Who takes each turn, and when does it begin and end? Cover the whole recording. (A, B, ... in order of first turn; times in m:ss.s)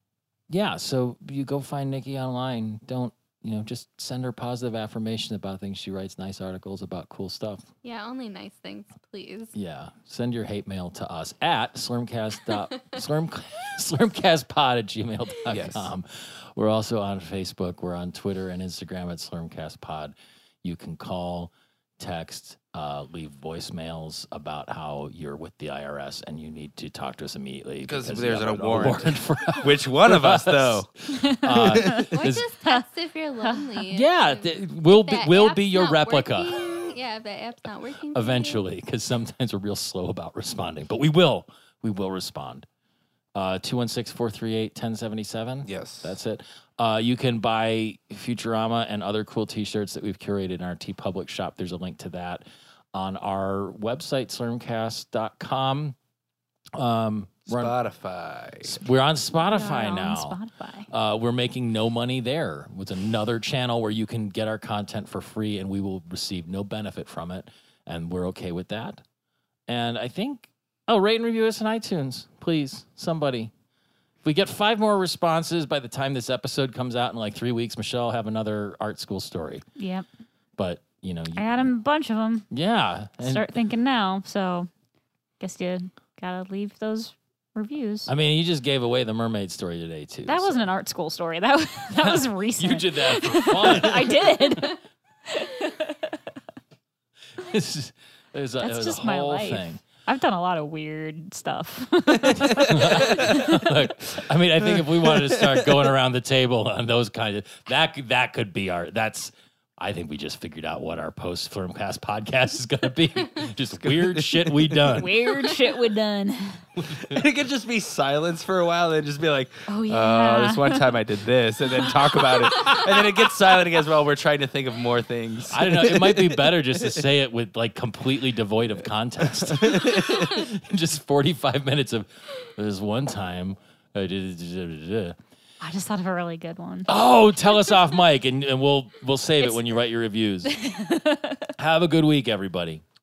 0:00.5-0:07.7 A
0:07.8-0:09.6 B
0:09.6-0:32.5 A
0:15.5-0:15.9 C
0:27.8-0:30.9 C
0:31.1-0:32.1 D
0:31.4-0:32.0 C
0:32.1-0:38.6 B
0:33.9-0:36.6 A
0:38.1-0:42.7 A
0:43.3-0:56.0 A
0:45.6-0:46.1 C
0:56.7-0:57.7 A
0:57.5-0:58.8 C
0:58.6-1:09.0 A
0:59.4-1:00.9 D
1:09.7-1:13.5 A
1:14.2-1:19.6 A
1:19.8-1:20.0 D
1:20.6-1:21.7 A
1:21.3-1:22.5 D
1:22.5-1:23.6 A
1:23.2-1:24.7 D
1:25.4-1:28.1 D
1:28.1-1:30.7 A
1:30.2-1:36.2 D
1:32.0-1:34.8 A
1:37.4-1:39.8 A
1:38.6-1:43.7 D
1:42.5-1:43.2 C
1:42.6-1:55.3 A
1:44.8-1:45.7 C
1:53.8-1:55.0 C
1:55.0-1:56.6 D
1:56.8-1:57.2 A
1:56.9-2:07.0 C
1:59.7-2:00.8 D
2:05.5-2:15.2 A
2:09.3-2:10.3 C
2:15.6-2:16.9 D
2:16.9-2:20.6 A
2:20.4-2:21.5 D
2:21.6-2:22.8 A